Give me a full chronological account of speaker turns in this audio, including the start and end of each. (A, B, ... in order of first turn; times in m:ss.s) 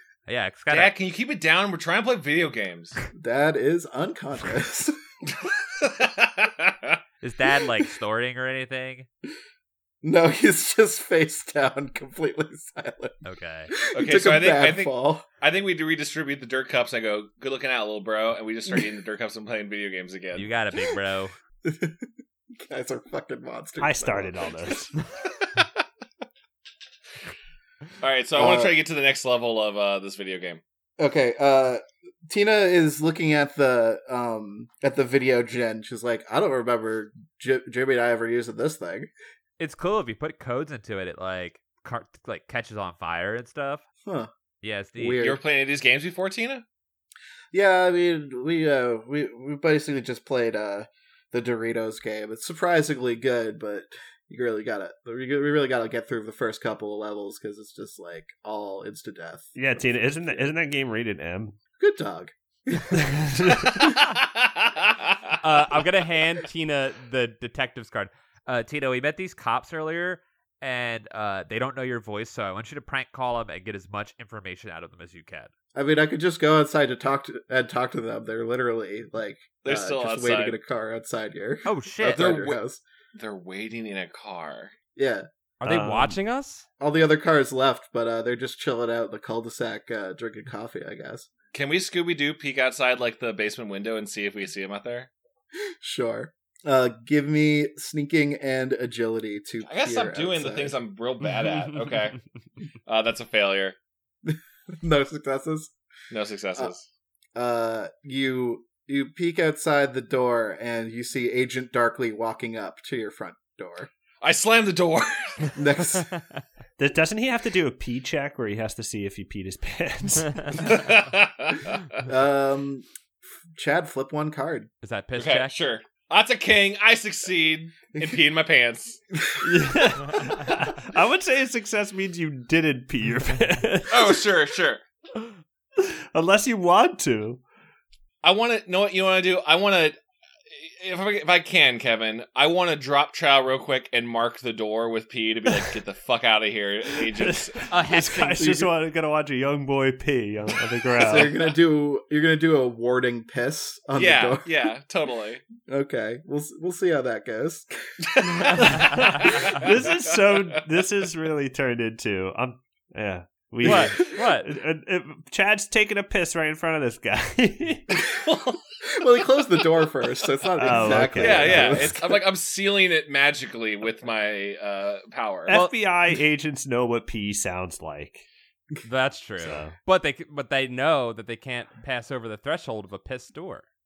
0:00.3-0:00.9 A
0:00.7-0:03.0 B
0:03.1-0:05.0 C
0:05.8-0:07.0 B
0:07.2-0:09.1 A
0:10.0-0:15.2 C
0:13.2-0:13.7 A
0:13.9-0:20.5 B
0:20.3-0:21.3 A
0:21.6-0:24.7 C
0:23.8-0:24.9 D
0:28.0-0:30.6 B
0:28.4-0:28.7 C
0:31.0-0:39.1 C
0:39.6-0:43.8 A
0:44.6-0:45.2 A
0:45.0-0:45.4 C
0:45.2-0:46.6 B
0:47.5-0:59.5 C
0:59.5-1:01.6 D
1:01.8-1:04.0 C
1:02.9-1:03.9 D
1:04.0-1:05.2 B
1:05.4-1:15.5 A
1:15.7-1:22.8 C
1:19.6-1:20.6 B
1:21.6-1:22.3 A
1:22.0-1:22.6 B
1:23.1-1:24.7 B
1:25.0-1:25.3 C
1:25.6-1:26.6 A
1:25.6-1:26.2 D
1:26.8-1:31.3 C
1:31.5-1:35.1 B
1:35.8-1:40.8 C
1:39.6-1:42.2 B
1:42.8-1:43.8 B
1:44.2-1:45.7 C
1:46.1-1:46.8 B
1:47.3-1:53.9 C
1:54.2-1:55.5 B
1:55.5-1:56.1 C
1:56.8-2:00.9 D
2:00.6-2:02.0 B
2:02.0-2:02.9 C
2:03.5-2:04.7 C
2:04.8-2:05.5 A
2:05.2-2:09.0 B
2:09.1-2:09.6 C
2:09.4-2:14.2 D
2:13.9-2:14.8 B
2:15.8-2:17.4 D
2:18.2-2:20.0 B
2:20.5-2:27.7 B
2:25.5-2:25.7 D
2:27.0-2:31.3 D
2:27.7-2:28.6 A
2:28.4-2:28.7 C
2:31.0-2:34.7 C
2:33.9-2:35.4 B
2:35.7-2:37.7 C
2:38.0-2:40.5 B
2:38.3-2:38.9 C
2:38.5-2:48.1 D
2:43.6-2:44.5 A
2:43.7-2:43.9 C
2:48.0-2:48.6 B
2:48.8-2:52.2 C
2:50.6-2:52.0 D
2:50.8-2:55.6 B
2:55.5-2:58.2 D
2:58.8-3:03.6 A
2:59.4-2:59.7 D